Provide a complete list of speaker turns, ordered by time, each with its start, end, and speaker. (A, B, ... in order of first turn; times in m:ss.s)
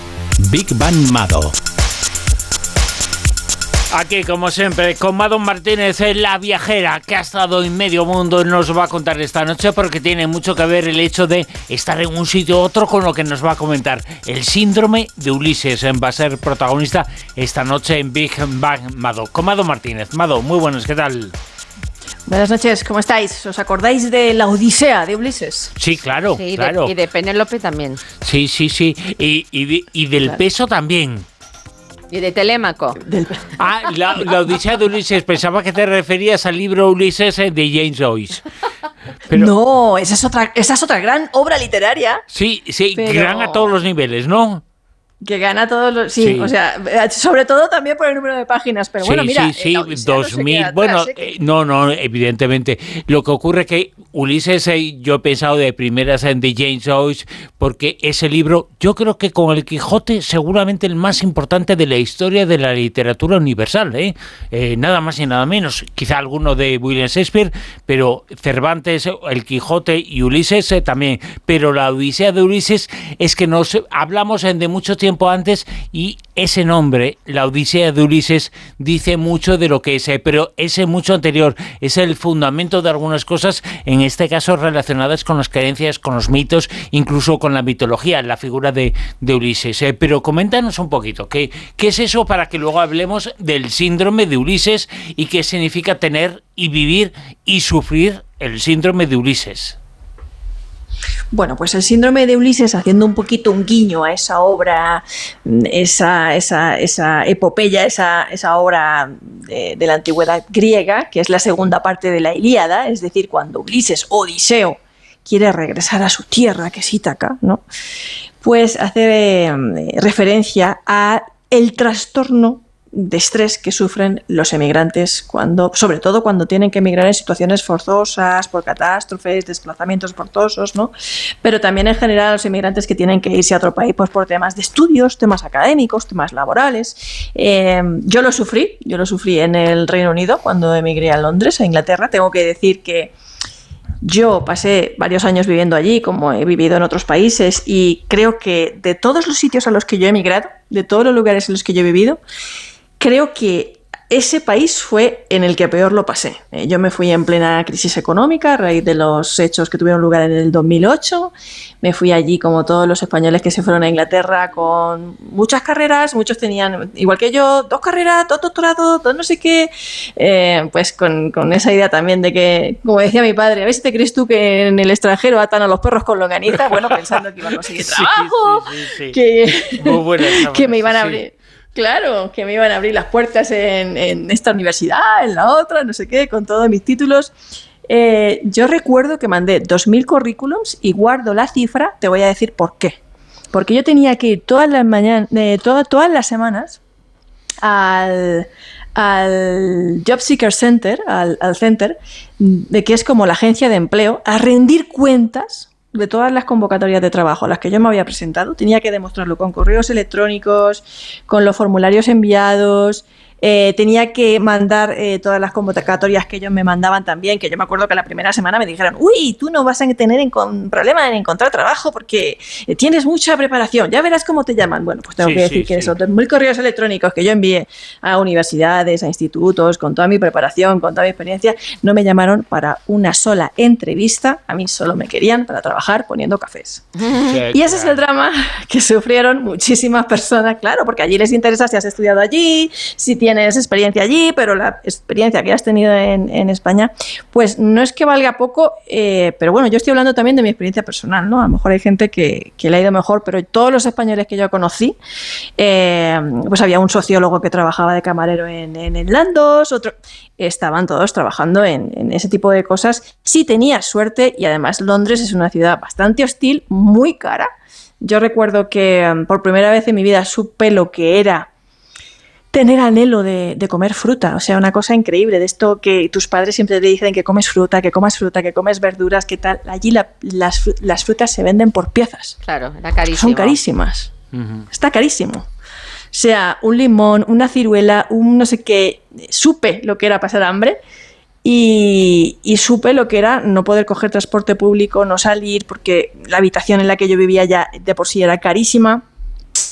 0:00.4-0:01.5 A
0:03.9-0:21.3 A
0:22.2-0:25.7 B
0:25.8-0:26.9 A
0:26.3-0:28.0 C
0:28.2-0:31.2 A
0:32.1-0:33.0 C
0:33.0-0:33.5 B
0:33.6-0:38.4 A
0:39.3-0:39.5 A
0:39.3-0:42.2 B
0:42.3-0:44.6 A
0:42.9-0:43.8 B
0:45.2-0:51.3 B
0:46.2-0:46.5 A
0:49.0-1:39.8 A
1:41.3-1:57.6 B
1:58.4-2:23.1 B
2:24.0-2:32.2 B
2:33.0-3:07.3 B
2:57.6-2:59.2 A
2:59.8-3:01.2 A
3:07.9-3:13.0 B
3:13.5-3:16.8 B
3:17.6-3:56.9 B
3:45.2-3:46.0 A
3:57.1-3:57.3 C
3:57.2-3:58.0 A
3:57.5-4:15.0 B
4:15.6-4:27.5 B
4:28.0-4:31.5 B
4:32.5-4:42.4 B
4:42.4-4:43.6 C
4:43.0-4:44.1 B
4:44.4-4:44.6 A
4:44.7-4:45.5 B
4:46.1-4:50.8 B
4:51.4-4:59.0 B